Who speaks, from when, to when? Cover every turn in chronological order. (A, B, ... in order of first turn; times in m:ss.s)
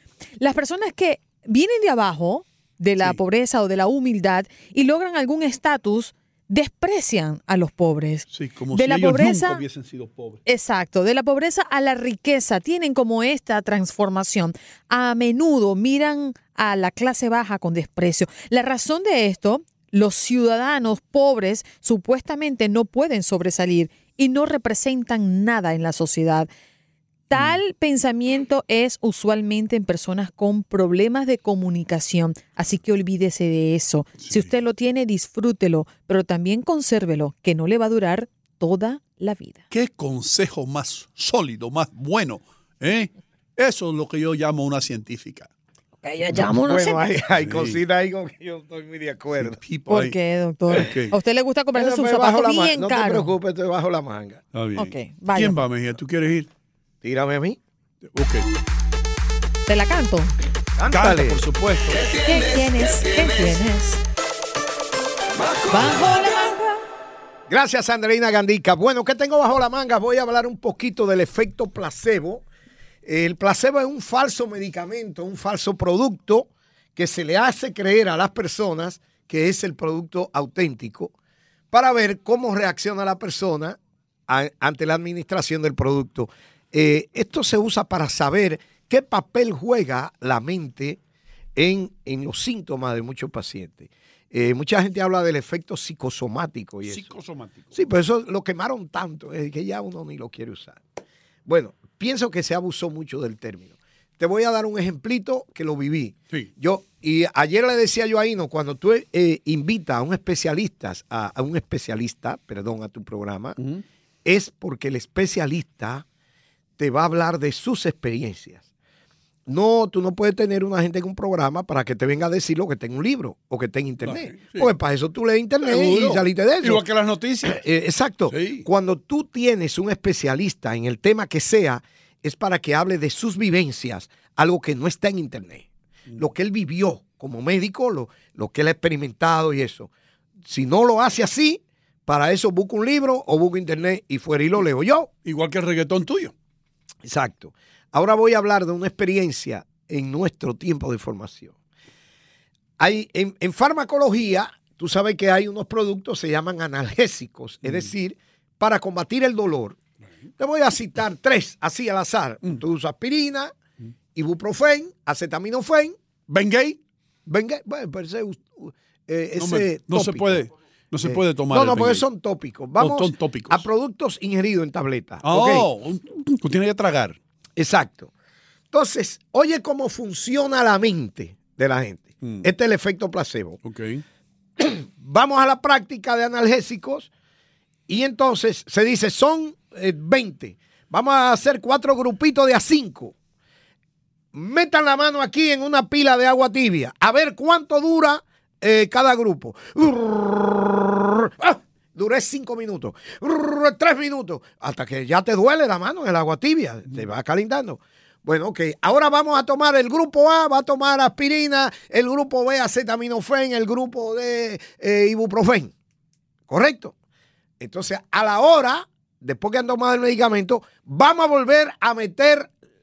0:00.4-0:09.6 A
0:08.3-0:10.4 B
0:10.4-0:26.5 A
0:27.3-0:39.6 A
0:27.3-0:27.6 B
0:34.2-0:34.5 B
0:39.7-0:45.5 B
0:46.0-0:47.0 A
0:46.3-0:49.6 C
0:47.4-0:47.8 B
0:49.3-0:50.2 B
0:49.9-0:53.4 A
0:50.7-0:51.1 B
0:51.7-0:54.4 C
0:54.5-0:56.5 B
0:54.8-0:55.6 A
0:57.0-0:57.6 C
0:58.1-0:58.4 B
0:59.6-1:00.3 A
1:00.8-1:01.4 C
1:00.9-1:02.1 B
1:02.2-1:04.0 A
1:05.7-1:06.8 A
1:07.5-1:12.4 C
1:13.0-1:21.1 C
1:21.7-1:31.0 C
1:31.6-1:37.1 C
1:36.8-1:37.8 B
1:37.7-1:40.8 C
1:41.4-1:53.6 C
1:53.6-1:53.8 B
1:54.2-1:56.0 C
1:56.8-1:58.6 C
1:59.5-2:06.8 C
2:04.0-2:04.7 B
2:05.6-2:07.6 B
2:07.4-2:19.9 C
2:08.3-2:08.7 B
2:20.4-2:25.1 C
2:25.2-2:26.3 B
2:27.0-2:31.5 C
2:32.8-2:39.8 C
2:37.6-2:37.9 B
2:40.4-2:43.5 C
2:44.1-2:46.0 C
2:46.3-2:46.8 B
2:47.2-2:50.4 C
2:49.4-2:52.0 B
2:51.0-2:55.7 C
2:52.8-2:53.7 B
2:55.2-2:57.2 B
2:57.6-2:58.1 C
2:58.7-3:03.6 C
3:02.2-3:02.5 B
3:03.6-3:04.0 B
3:04.6-3:07.1 C
3:07.9-3:13.1 C
3:14.3-3:35.7 C
3:36.5-3:36.9 C
3:37.6-3:42.5 C